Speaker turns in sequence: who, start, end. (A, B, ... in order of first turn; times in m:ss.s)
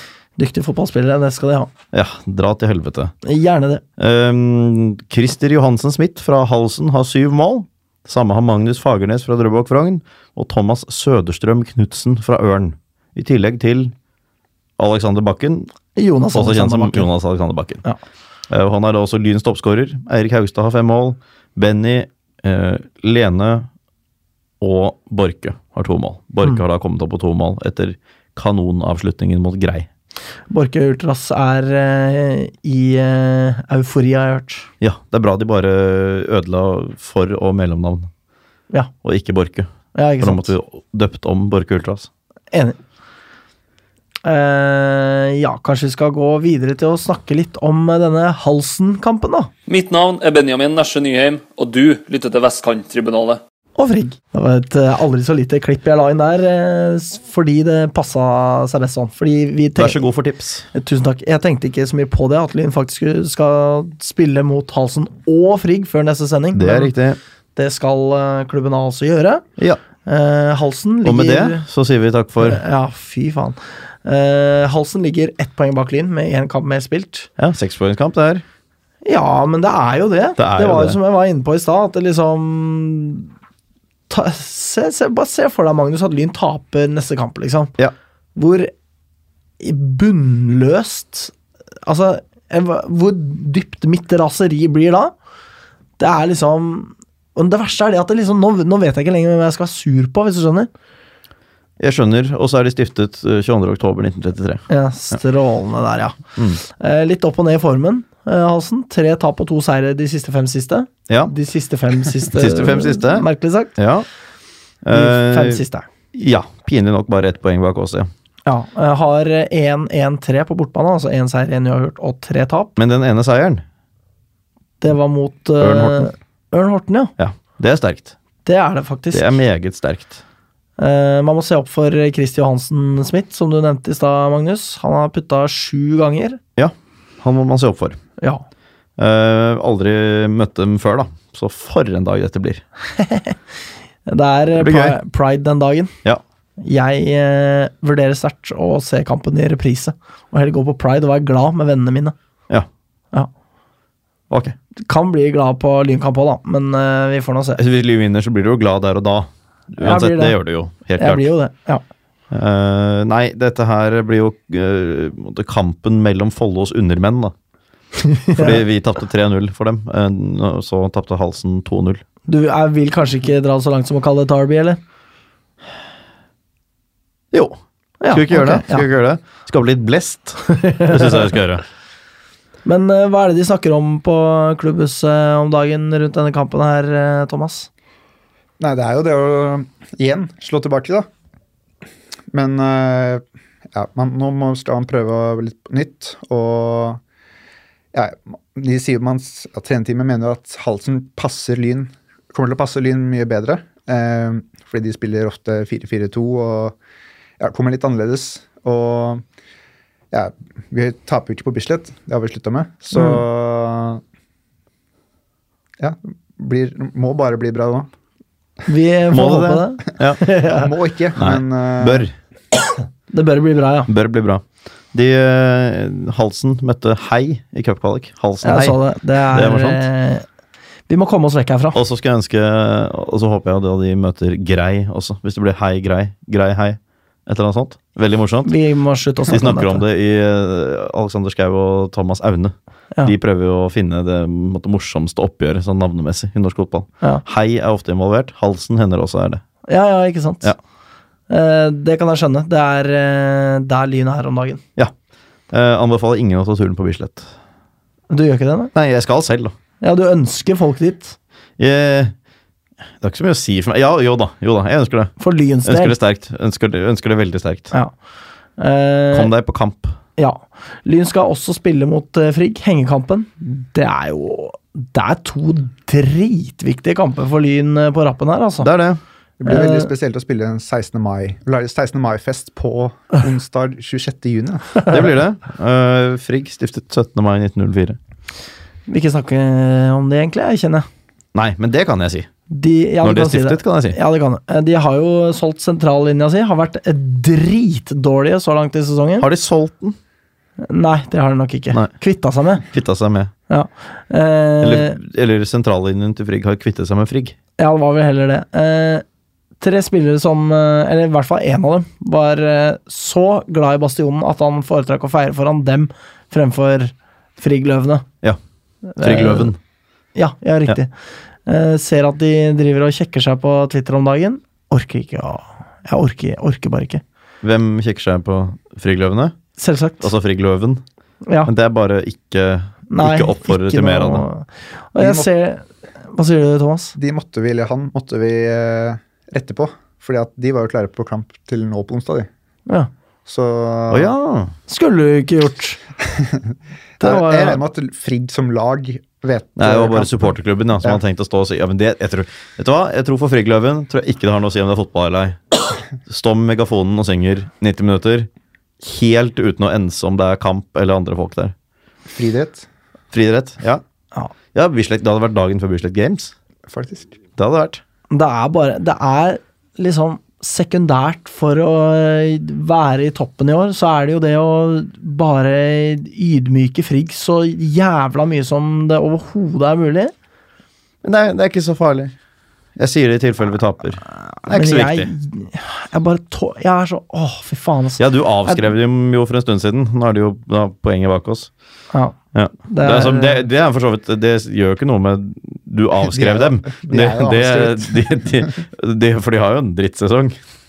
0:00.4-0:01.7 A
0:01.9-0:03.1 B
0:03.2-0:03.8 A
0:04.0-0:13.9 B
0:14.8-0:15.7 B
0:16.0-0:17.1 A
0:16.3-0:17.8 B
0:18.5-0:23.7 B
0:24.6-0:29.9 B
0:30.5-0:34.7 A
0:34.8-0:38.1 B
0:39.0-0:42.1 B
0:40.0-0:40.5 A
0:42.5-0:42.8 A
0:44.2-0:49.5 A
0:49.7-0:53.4 C
0:53.8-1:00.0 A
0:59.8-1:00.7 B
1:00.7-1:06.9 A
1:06.6-1:07.2 B
1:07.6-1:09.4 A
1:10.0-1:11.6 A
1:11.0-1:12.6 B
1:12.4-1:17.3 A
1:17.4-1:18.4 B
1:19.0-1:23.3 A
1:20.4-1:21.0 B
1:24.1-1:27.7 A
1:28.4-1:28.7 A
1:29.6-1:31.3 A
1:31.8-1:35.1 A
1:36.0-1:40.7 A
1:41.8-1:44.7 B
1:44.7-1:53.7 A
1:52.3-1:53.3 B
1:53.8-1:54.1 B
1:54.8-1:55.6 B
1:54.9-1:55.9 A
1:56.1-1:58.1 B
1:58.5-2:02.8 A
2:02.8-2:03.6 B
2:04.8-2:07.1 A
2:05.6-2:06.1 B
2:07.2-2:08.2 B
2:08.4-2:09.4 A
2:09.1-2:10.2 B
2:10.8-2:16.4 A
2:16.6-2:18.0 B
2:19.0-2:22.6 B
2:23.0-2:23.4 A
2:24.1-2:25.9 A
2:24.6-2:25.0 B
2:26.6-2:32.2 A
2:34.8-2:37.6 A
2:37.6-2:41.3 B
2:39.8-2:40.4 A
2:41.0-2:41.8 A
2:42.3-2:47.3 B
2:48.0-2:48.6 A
2:48.3-2:52.0 B
2:52.3-2:54.8 A
2:57.3-2:57.6 B
2:58.0-2:58.9 A
2:58.1-3:01.6 B
3:00.5-3:01.2 A
3:02.6-3:07.7 A
3:08.6-3:11.1 D
3:12.3-3:17.0 D
3:17.9-3:26.8 D
3:27.4-3:29.2 D
3:30.1-3:34.0 D
3:32.9-3:33.2 A
3:35.8-3:37.9 D
3:38.7-3:40.7 A
3:39.1-3:40.2 B
3:40.5-3:42.1 D
3:41.2-3:42.1 B
3:43.1-3:43.9 A
3:43.9-3:48.8 B
3:48.4-3:50.2 A
3:49.3-3:49.8 B
3:50.9-3:51.8 A
3:51.8-3:58.6 B
3:58.4-3:59.8 A
3:59.3-4:09.4 B
4:09.7-4:10.5 A
4:11.3-4:14.6 A
4:15.5-4:17.3 B
4:18.1-4:18.7 A
4:18.7-4:19.6 B
4:19.8-4:21.2 A
4:21.6-4:22.1 B
4:23.0-4:27.7 B
4:25.2-4:26.0 A
4:28.6-4:29.3 A
4:29.1-4:30.0 B
4:30.2-4:38.7 A
4:38.6-4:39.0 B
4:39.4-4:44.8 D
4:39.5-4:39.9 A
4:44.9-4:48.0 B
4:48.9-4:50.9 A
4:51.3-4:52.3 B
4:52.5-4:59.3 A
4:53.0-4:54.0 B
4:59.2-5:00.0 B
5:00.6-5:02.6 A
5:02.6-5:03.3 B
5:03.5-5:05.0 A
5:04.6-5:07.4 B
5:07.6-5:09.0 A
5:09.6-5:18.0 A
5:18.9-5:19.5 A
5:19.0-5:19.6 B
5:20.2-5:20.9 A
5:21.5-5:27.0 A
5:27.4-5:29.4 B
5:29.6-5:30.1 A
5:30.0-5:30.8 B
5:31.4-5:34.3 B
5:32.9-5:37.0 A
5:35.0-5:35.3 D
5:37.0-5:42.3 D
5:43.3-5:44.1 D
5:43.9-5:44.5 B
5:44.7-5:45.8 A
5:46.1-5:51.0 D
5:47.0-5:47.6 A
5:49.6-5:58.3 B
5:58.8-6:01.5 B
6:02.1-6:02.7 D
6:03.1-6:03.8 B
6:04.5-6:06.3 B
6:06.7-6:07.2 D
6:07.4-6:07.8 B
6:08.1-6:20.1 A
6:21.0-6:22.1 B
6:22.8-6:25.1 B
6:24.5-6:28.6 A
6:28.0-6:31.5 B
6:32.3-6:40.4 B
6:32.7-6:33.4 A
6:36.1-6:38.5 D